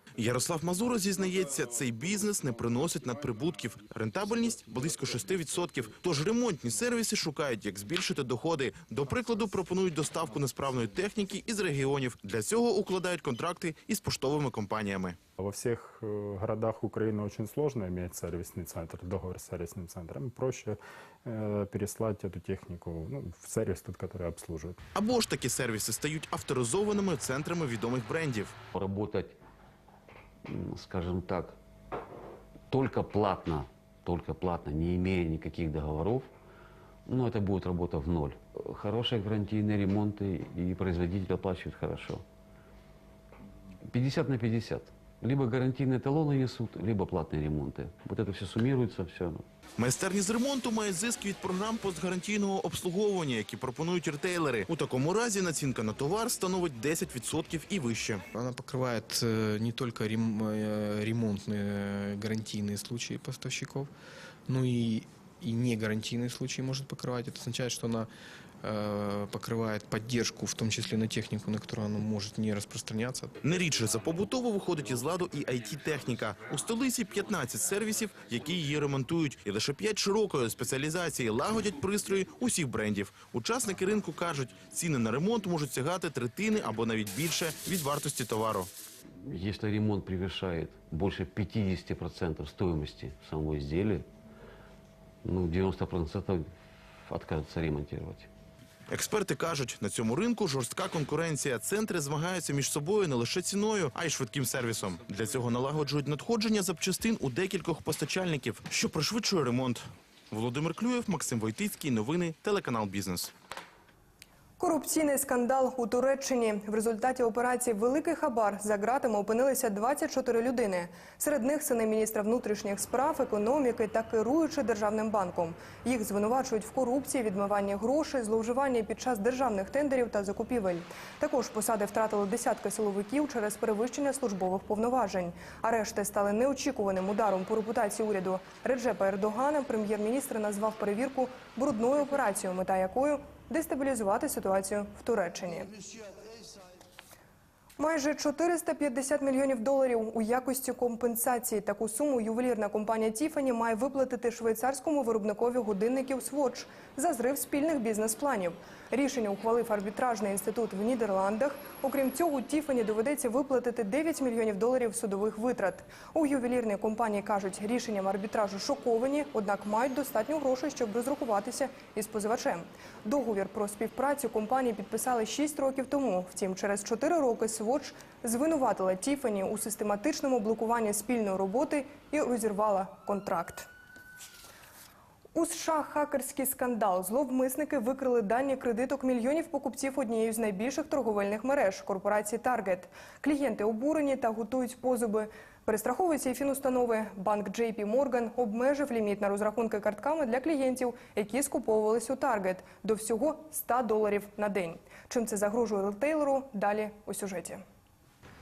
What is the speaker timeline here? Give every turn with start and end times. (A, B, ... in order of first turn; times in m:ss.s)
0:00.2-0:15.2 A
0:15.4-0:24.8 B
0:24.9-0:28.6 A
0:28.7-0:29.4 C
0:30.5-0:31.6 C
0:32.7-0:36.3 C
0:37.1-0:42.2 C
0:43.9-0:49.4 C
0:49.8-0:58.2 A
0:58.3-1:03.9 D
1:04.5-1:08.1 D
1:08.6-1:13.4 D
1:13.4-1:28.7 A
1:29.2-1:34.1 C
1:35.2-1:36.5 C
1:37.0-1:38.3 C
1:38.9-1:53.3 A
1:54.6-2:25.7 E
2:27.8-3:03.7 E
3:05.3-3:27.6 E